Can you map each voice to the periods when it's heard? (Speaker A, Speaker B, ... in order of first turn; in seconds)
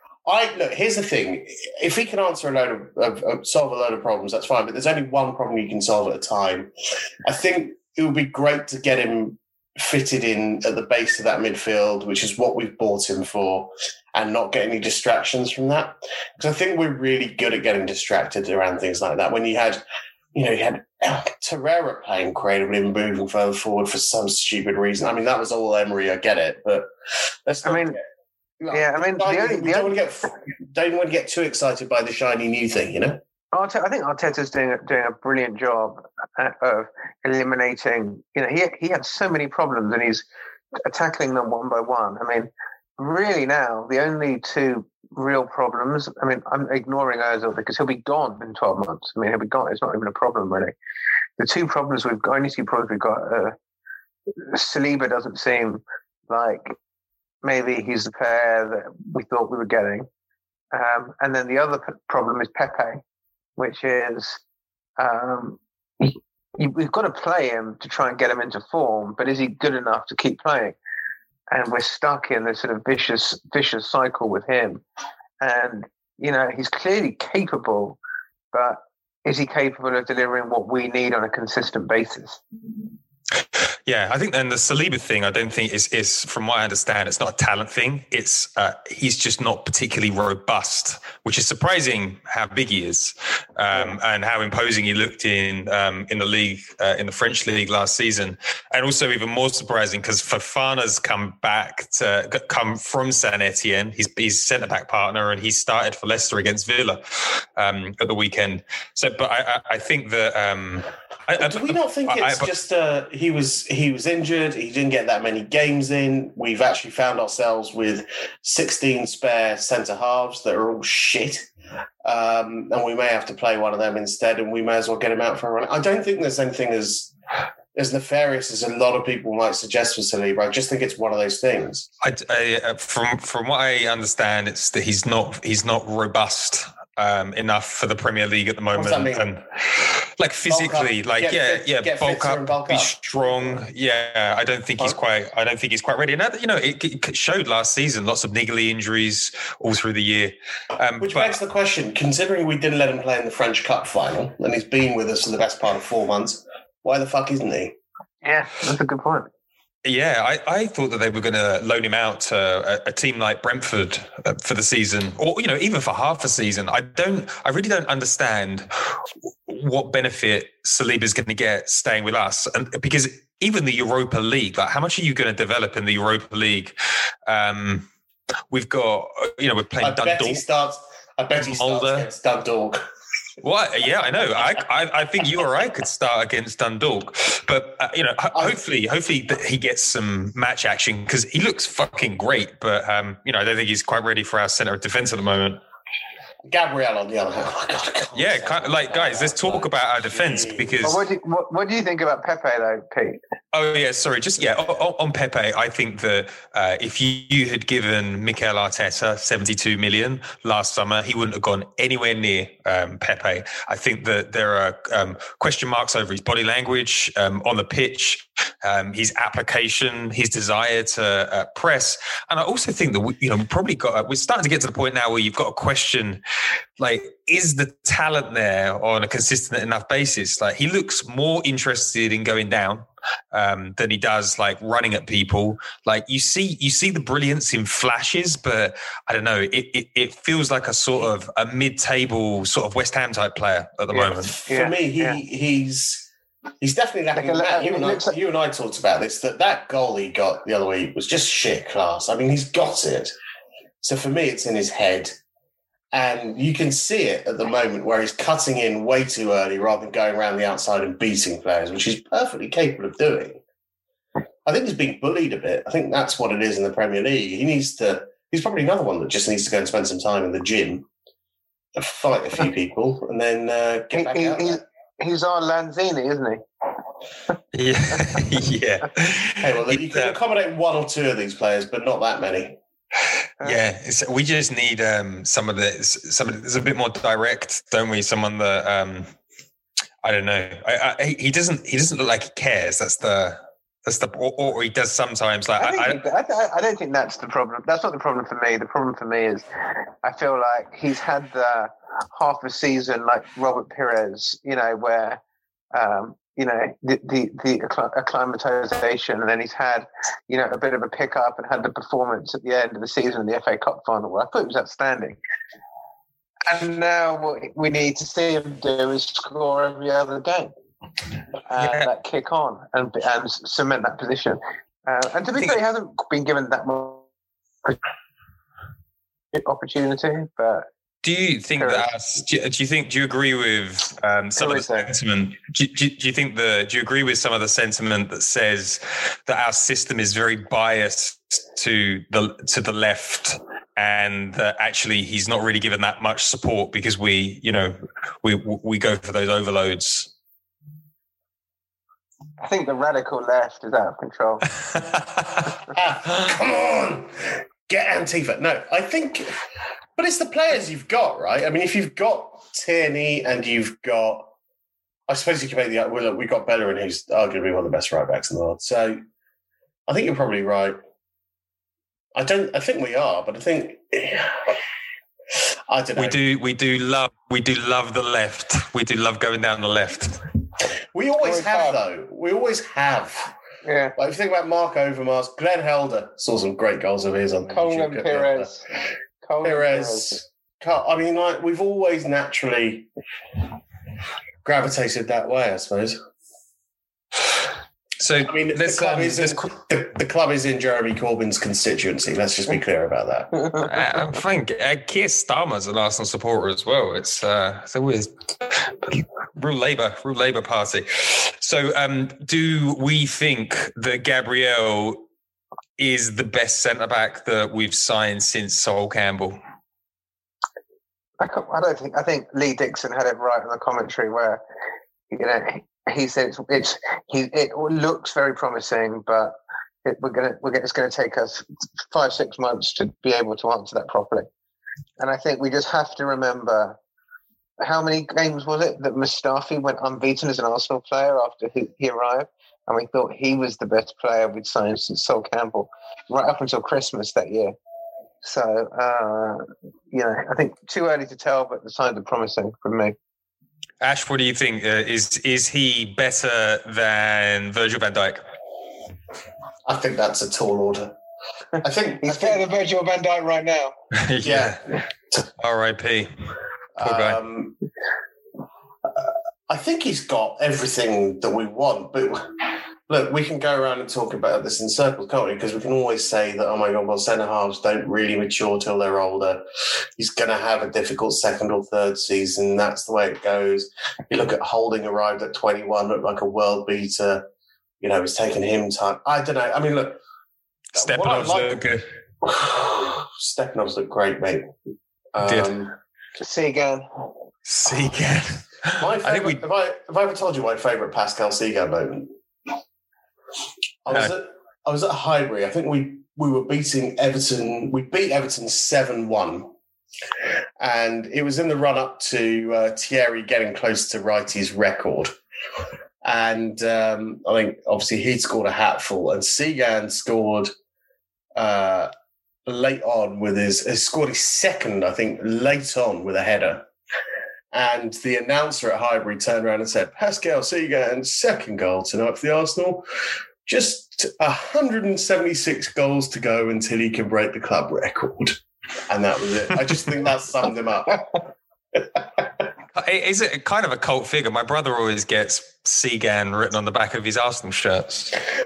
Speaker A: 0.2-6.7, 7.2-19.8, 20.3-26.9, 27.4-28.0, 28.6-33.2, 111.4-121.5, 122.0-127.1, 127.8-131.9, 138.7-139.3, 140.5-143.6, 151.0-157.8, 179.8-182.9, 196.4-200.8, 244.1-246.1, 246.6-253.1, 253.8-255.1, 255.9-263.4, 264.4-270.9, 271.8-274.6, 279.4-282.6, 355.7-359.4, 360.0-364.3, 365.1-369.0, 369.9-370.8, 372.1-374.6, 375.7-376.2, 380.9-383.4, 383.9-388.5, 389.4-392.9, 394.4-396.0, 398.2-403.3, 459.6-460.9, 461.6-462.4, 464.2-465.3, 466.8-467.6, 469.0-472.3, 472.9-479.4, 480.0-487.3, 487.8-490.0, 490.8-491.6, 492.2-494.5, 495.1-495.8, 498.8-502.1, 503.9-509.5, 510.6-515.1, 516.0-520.5, 521.4-521.9, 522.5-526.7, 527.5-532.9, 533.5-541.2
Speaker B: 27.6-28.0, 28.7-30.0, 33.5-40.3, 40.9-50.8, 51.4-53.5, 54.5-56.8, 57.4-60.1, 60.7-63.0, 63.6-64.4, 65.0-70.8, 71.5-74.8, 75.4-78.0, 78.5-82.4, 158.2-159.3, 200.8-203.2, 243.9-245.2, 247.1-248.1, 273.9-276.4, 295.6-299.4, 300.0-305.2, 305.7-315.2, 316.5-320.5, 321.5-327.1, 329.3-330.7, 331.6-331.9, 334.4-334.9, 352.4-354.4, 381.2-381.8, 383.6-383.9, 387.4-388.6, 389.2-390.2, 421.2-424.4, 425.1-429.3, 429.9-434.3, 435.0-436.8, 437.6-447.5, 448.2-452.9, 462.0-463.7, 496.2-496.8
Speaker C: 83.9-112.5, 132.0-151.4, 159.8-168.7, 169.5-176.8, 177.3-177.9, 178.5-180.4, 181.4-182.1, 183.4-195.6, 198.1-201.0, 203.5-226.2, 226.8-244.3, 277.5-280.1, 283.4-289.1, 290.0-296.0, 321.6-321.9, 325.3-325.6, 331.0-350.1, 375.9-380.2, 398.0-399.5, 403.6-415.0, 415.8-419.4, 453.8-458.2, 464.0-464.6, 465.4-466.1, 466.8-467.2, 490.7-491.9, 495.2-495.5, 497.5-499.4, 542.8-548.1